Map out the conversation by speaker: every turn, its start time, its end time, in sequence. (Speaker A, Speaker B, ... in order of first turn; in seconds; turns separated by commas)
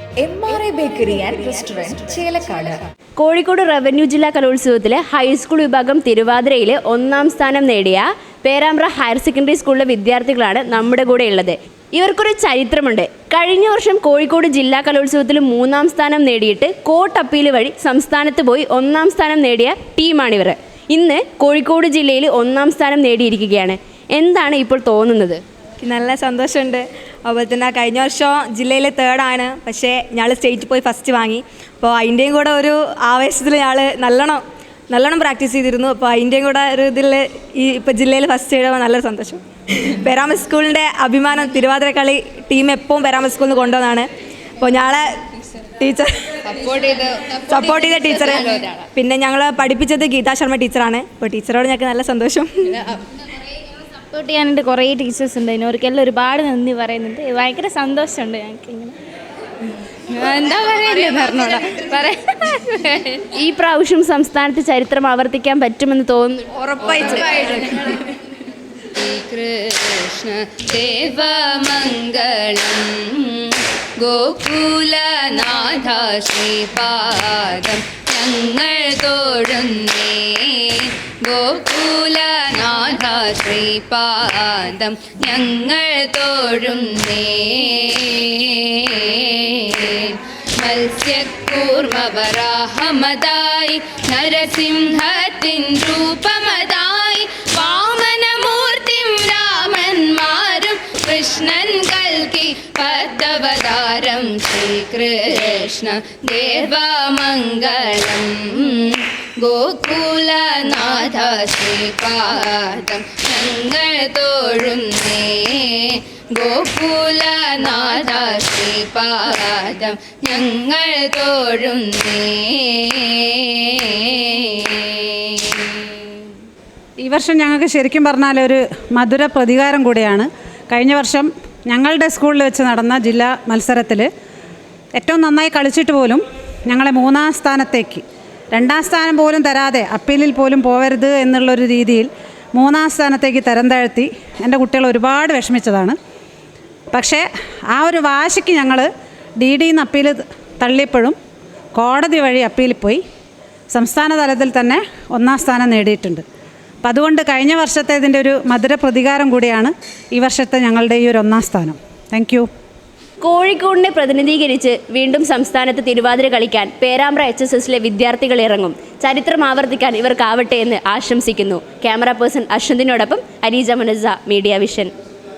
Speaker A: 0.2-2.8, Speaker B: 3.2-25.4, Speaker C: 25.8-44.1, Speaker C: 44.6-45.1, Speaker C: 45.8-46.5, Speaker D: 46.5-48.8, Speaker C: 47.4-52.8, Speaker E: 54.1-59.0, Speaker E: 60.1-63.2, Speaker B: 63.3-66.5, Speaker C: 66.8-67.8, Speaker B: 67.0-67.3, Speaker D: 67.2-67.6, Speaker D: 69.0-126.1, Speaker F: 127.0-134.1, Speaker F: 134.9-145.9, Speaker F: 146.9-148.9, Speaker F: 149.4-151.1, Speaker F: 151.7-153.0, Speaker F: 153.7-156.2, Speaker F: 156.8-162.5, Speaker B: 163.2-174.9